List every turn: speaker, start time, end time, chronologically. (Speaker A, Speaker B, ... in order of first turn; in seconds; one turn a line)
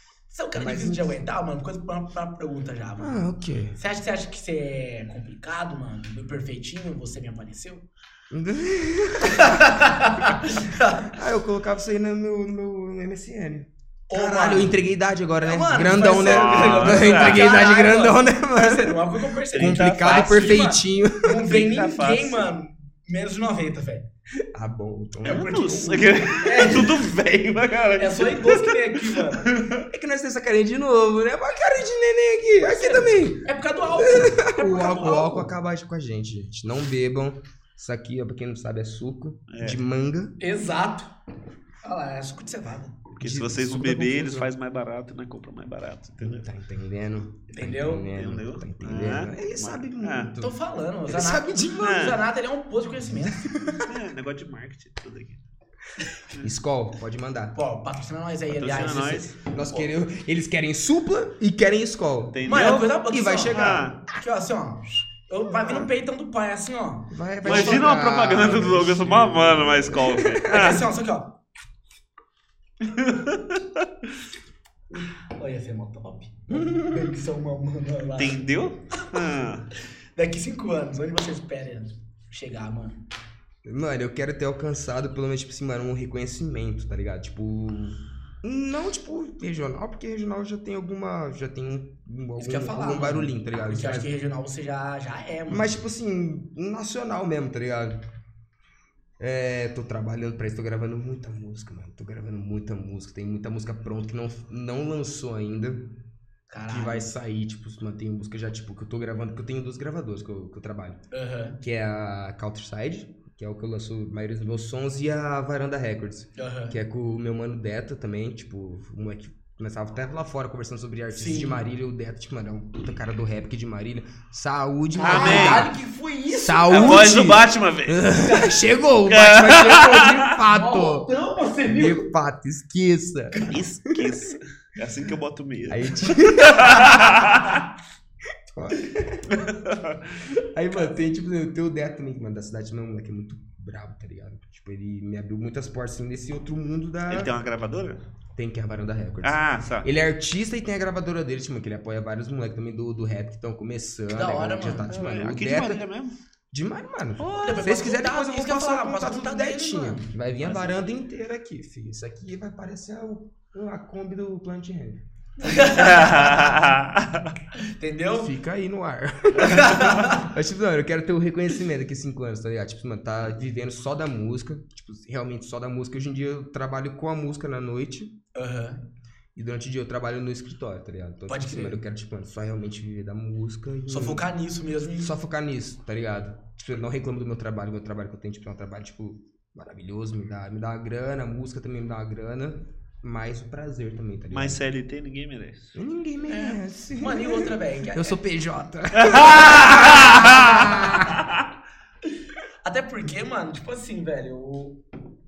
Speaker A: 0.3-3.2
Speaker B: 0.5-1.2
Speaker B: 3.0-3.8
Speaker A: 3.7-7.8
Speaker B: 8.3-21.5
Speaker A: 9.2-11.2
Speaker A: 14.1-14.8
Speaker A: 15.4-24.1
Speaker C: 16.1-17.5
Speaker C: 19.5-20.6
Speaker C: 21.4-22.5
Speaker B: 24.5-26.0
Speaker A: 25.2-27.1
Speaker C: 25.2-29.9
Speaker A: 28.0-29.5
Speaker B: 29.9-40.4
Speaker A: 32.6-35.5
Speaker C: 39.5-39.8
Speaker A: 40.4-41.1
Speaker A: 41.8-43.0
Speaker C: 43.1-46.5
Speaker B: 43.2-44.5
Speaker B: 46.2-50.5
Speaker A: 47.5-48.1
Speaker C: 48.1-50.3
Speaker A: 50.4-53.5
Speaker B: 51.1-52.1
Speaker C: 51.8-52.2
Speaker B: 53.2-54.0
Speaker C: 53.8-55.4
Speaker B: 56.4-57.6
Speaker A: 57.5-59.3
Speaker C: 58.5-59.9
Speaker B: 59.5-62.4
Speaker C: 62.3-64.0
Speaker A: 62.5-67.9
Speaker B: 63.0-63.9
Speaker B: 67.1-70.8
Speaker C: 67.4-70.8
Speaker A: 70.5-71.3
Speaker C: 72.8-73.8
Speaker A: 74.9-78.4
Speaker B: 76.5-77.1
Speaker C: 78.2-79.7
Speaker A: 80.2-83.0
Speaker B: 83.6-94.1
Speaker A: 92.4-95.7
Speaker B: 95.5-98.0
Speaker B: 99.2-105.9
Speaker A: 106.5-107.1
Speaker B: 106.7-111.0
Speaker A: 111.1-111.6
Speaker B: 111.6-125.7
Speaker A: 116.3-116.8
Speaker A: 121.1-121.6
Speaker A: 125.0-127.2
Speaker C: 125.0-125.7
Speaker B: 126.3-131.1
Speaker C: 126.7-128.0
Speaker A: 128.2-128.6
Speaker C: 129.1-130.3
Speaker A: 130.5-132.1
Speaker B: 131.7-134.2
Speaker C: 133.4-137.6
Speaker B: 135.7-137.2
Speaker B: 138.5-139.5
Speaker C: 139.3-140.1
Speaker B: 140.2-147.3
Speaker C: 147.1-148.0
Speaker B: 148.3-155.8
Speaker C: 149.2-149.9
Speaker A: 154.1-154.9
Speaker C: 154.9-156.2
Speaker B: 156.5-165.0
Speaker C: 157.2-157.6
Speaker A: 157.3-160.7
Speaker A: 165.4-166.5
Speaker C: 165.7-167.3
Speaker A: 167.6-168.3
Speaker B: 168.1-178.1
Speaker A: 169.4-170.3
Speaker A: 178.3-178.8
Speaker B: 179.3-184.2
Speaker A: 181.3-181.8
Speaker A: 183.9-185.1
Speaker B: 185.0-194.6
Speaker C: 194.3-195.7
Speaker B: 195.7-201.2
Speaker A: 196.3-198.2
Speaker C: 198.9-201.4
Speaker A: 199.8-200.3
Speaker A: 202.6-204.8